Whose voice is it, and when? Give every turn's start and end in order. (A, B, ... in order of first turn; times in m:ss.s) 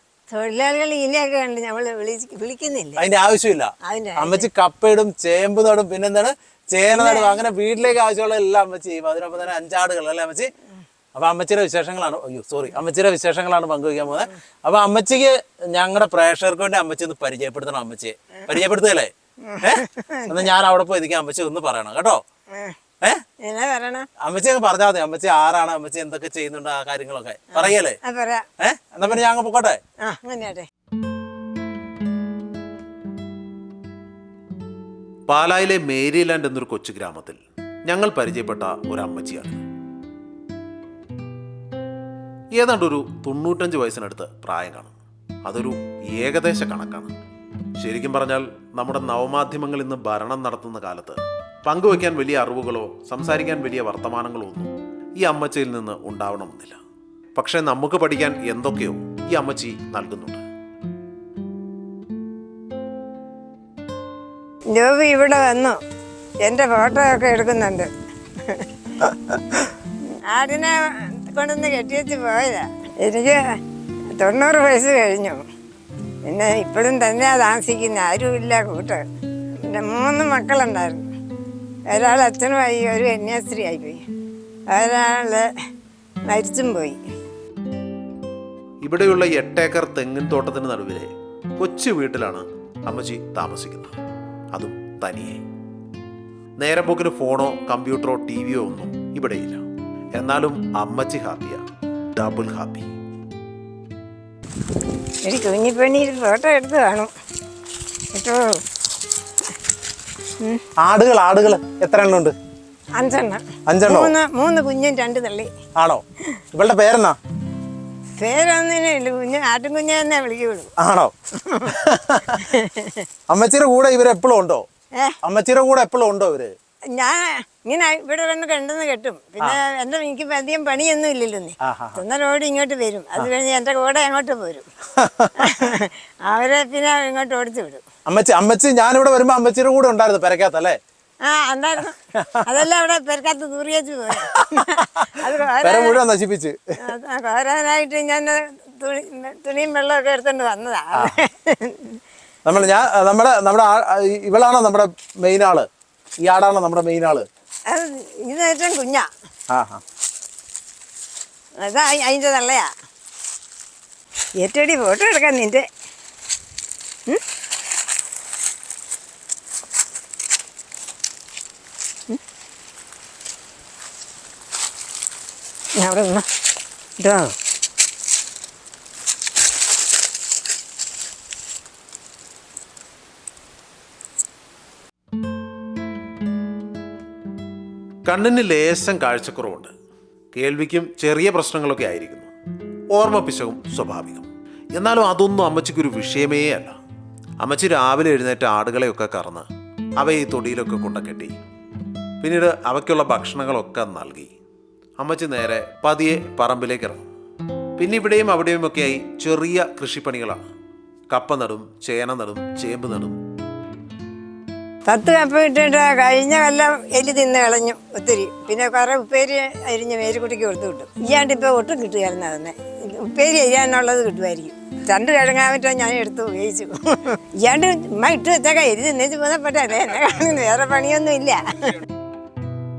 0:00.3-0:03.0 A
0:03.0-0:10.5 B
0:03.8-0:04.5 A
0:06.9-0:07.4 A
0:11.2-0:22.2 B
0:19.4-0:20.5 A
0:22.5-0:22.8 A
0:23.4-0:24.1 A
0:24.2-0:28.0 B
0:27.5-0:28.4 A
0:28.6-0:29.8 B
0:30.0-0:30.7 A
0:35.3-0:39.6 C
0:42.6-0:45.0 C
0:45.5-0:47.1 C
0:47.8-0:56.8 C
0:57.4-1:00.4 C
1:04.7-1:05.8 A
1:06.4-1:07.9 A
1:10.3-1:13.6 A
1:14.2-1:15.4 A
1:16.3-1:19.0 A
1:19.6-1:21.1 A
1:21.9-1:24.0 A
1:24.7-1:25.5 A
1:26.3-1:27.0 A
1:28.8-1:34.0 C
1:34.5-1:35.4 C
1:36.6-1:39.6 C
1:40.2-1:41.6 C
1:42.1-1:42.9 C
1:45.2-1:47.1 A
1:48.1-1:48.6 A
1:50.8-1:52.4 B
1:53.0-1:55.5 A
1:53.7-1:54.1 B
1:55.8-1:56.0 B
1:56.5-1:57.2 B
1:58.2-2:00.7 A
2:00.8-2:01.1 B
2:01.4-2:01.7 A
2:01.7-2:02.5 B
2:02.4-2:03.0 A
2:03.3-2:04.6 B
2:05.2-2:06.5 B
2:07.0-2:14.7 A
2:11.6-2:12.0 B
2:15.0-2:15.3 B
2:15.4-2:17.8 A
2:18.1-2:20.8 B
2:21.3-2:26.0 A
2:22.2-2:22.4 B
2:24.2-2:25.1 B
2:25.6-2:26.6 B
2:26.9-2:32.0 A
2:32.4-2:35.7 B
2:36.2-2:37.3 B
2:37.7-2:39.1 A
2:39.5-2:39.8 B
2:41.6-2:42.7 A
2:44.4-2:45.6 A
2:55.8-2:56.3 A
2:57.0-2:57.3 A
3:08.1-3:09.7 C
3:10.3-3:12.3 C
3:12.9-3:16.8 C
3:17.4-3:19.5 C
3:20.0-3:21.3 C
3:22.2-3:24.3 C
3:25.0-3:27.0 C
3:27.8-3:30.5 C
3:31.1-3:33.2 C
3:34.9-3:51.8 A